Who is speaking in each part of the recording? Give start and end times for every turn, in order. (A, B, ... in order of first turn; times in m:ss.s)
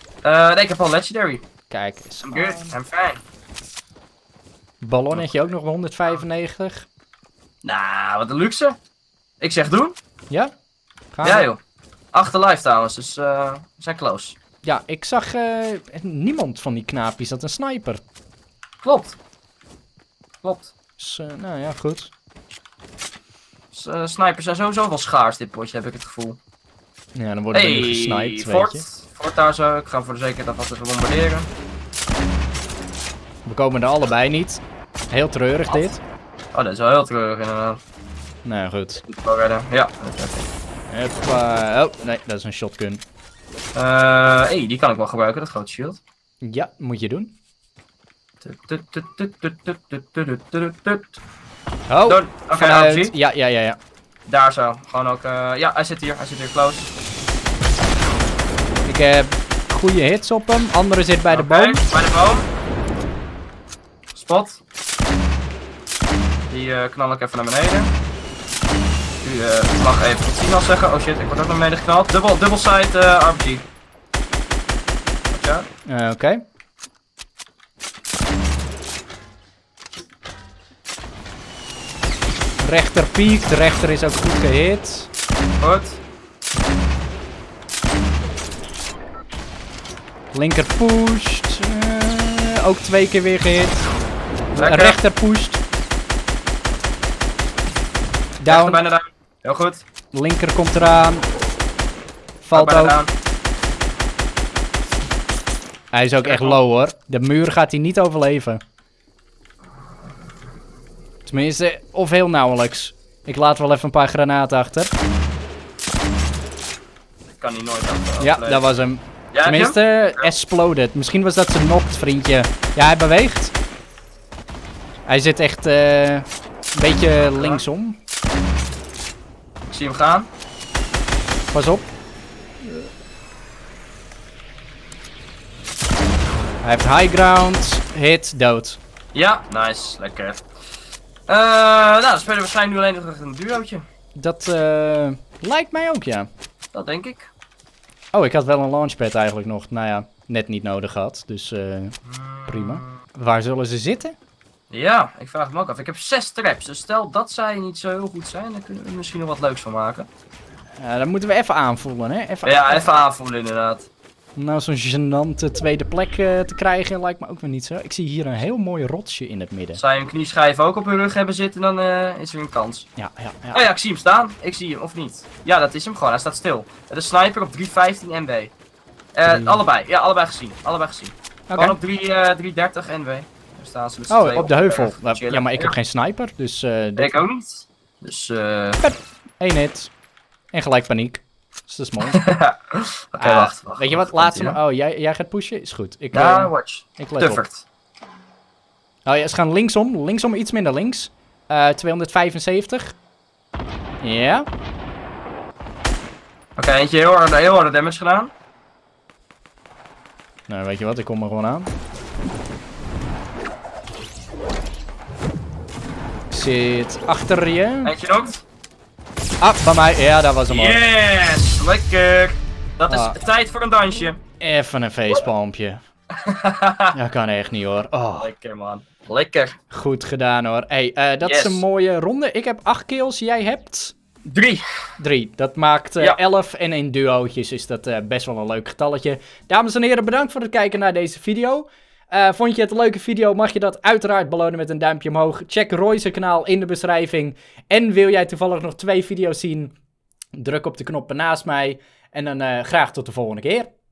0:00.2-0:01.4 A
0:01.7-0:02.7 B
0:02.2-0:03.2 A
0:04.8-0:06.9 B
0:05.1-0:05.4 A
0:07.6-0:08.8 A
0:09.4-0:10.0 A
0:11.1-0:11.5 B
0:11.2-0:11.6 A
0:12.1-0:14.4 A
0:14.6-0:18.0 B
0:18.8-0:19.2 A
0:20.4-0:20.7 A
0:21.0-0:22.1 B
0:23.7-0:26.4 A
0:27.2-0:28.8 B
0:27.5-0:31.5 A
0:33.4-0:36.0 B
0:36.5-0:37.8 A
0:38.4-0:39.0 B
0:39.0-0:40.5 A
0:40.9-0:43.0 B
0:43.7-0:46.0 A
0:46.4-0:47.3 B
0:48.4-0:51.2 A
0:51.9-0:53.8 B
0:52.0-0:53.1 A
0:54.3-0:56.9 A
0:58.8-1:01.8 B
1:01.3-1:02.5 A
1:04.1-1:04.6 A
1:06.5-1:07.9 A
1:09.2-1:13.6 A
1:15.3-1:15.6 A
1:15.9-1:16.4 B
1:22.6-1:25.1 B
1:25.6-1:26.0 A
1:30.3-1:33.9 B
1:34.5-1:35.0 A
1:34.6-1:35.6 B
1:38.4-1:38.8 B
1:38.5-1:39.8 A
1:40.1-1:41.3 B
1:42.4-1:43.0 B
1:42.5-1:43.1 A
1:45.9-1:48.6 B
1:46.2-1:46.6 A
1:51.2-1:54.9 B
1:57.3-1:58.7 A
1:58.2-2:03.5 B
1:59.3-2:00.3 A
2:05.1-2:08.0 B
2:07.2-2:07.6 A
2:09.7-2:10.3 A
2:11.5-2:11.9 B
2:12.6-2:12.9 B
2:16.6-2:18.8 B
2:19.1-2:20.4 A
2:21.3-2:23.8 A
2:24.2-2:26.3 B
2:26.7-2:27.3 A
2:28.1-2:31.9 B
2:32.0-2:32.9 A
2:32.5-2:34.1 B
2:34.7-2:40.1 A
2:40.8-2:42.8 B
2:42.4-2:43.9 A
2:44.4-2:49.8 B
2:49.7-2:52.9 A
2:53.0-2:53.7 B
2:53.5-2:58.5 A
2:59.1-3:05.7 A
2:59.2-2:59.6 B
3:01.5-3:01.8 B
3:04.1-3:07.2 B
3:07.0-3:08.8 A
3:08.8-3:09.9 B
3:10.5-3:12.3 B
3:12.1-3:14.6 A
3:13.2-3:17.4 B
3:16.1-3:17.6 A
3:19.0-3:22.9 B
3:24.0-3:24.4 B
3:26.6-3:28.3 A
3:30.5-3:31.7 B
3:36.3-3:37.9 B
3:37.8-3:38.4 A
3:39.4-3:40.8 B
3:40.5-3:44.2 A
3:42.9-3:43.2 B
3:44.4-3:45.8 B
3:46.2-3:46.9 A
3:46.9-3:48.3 B
3:48.1-3:49.6 A
3:49.7-3:53.9 B
3:51.2-3:51.6 A
3:54.3-3:54.6 A
3:55.0-4:09.7 B
4:10.3-4:13.7 B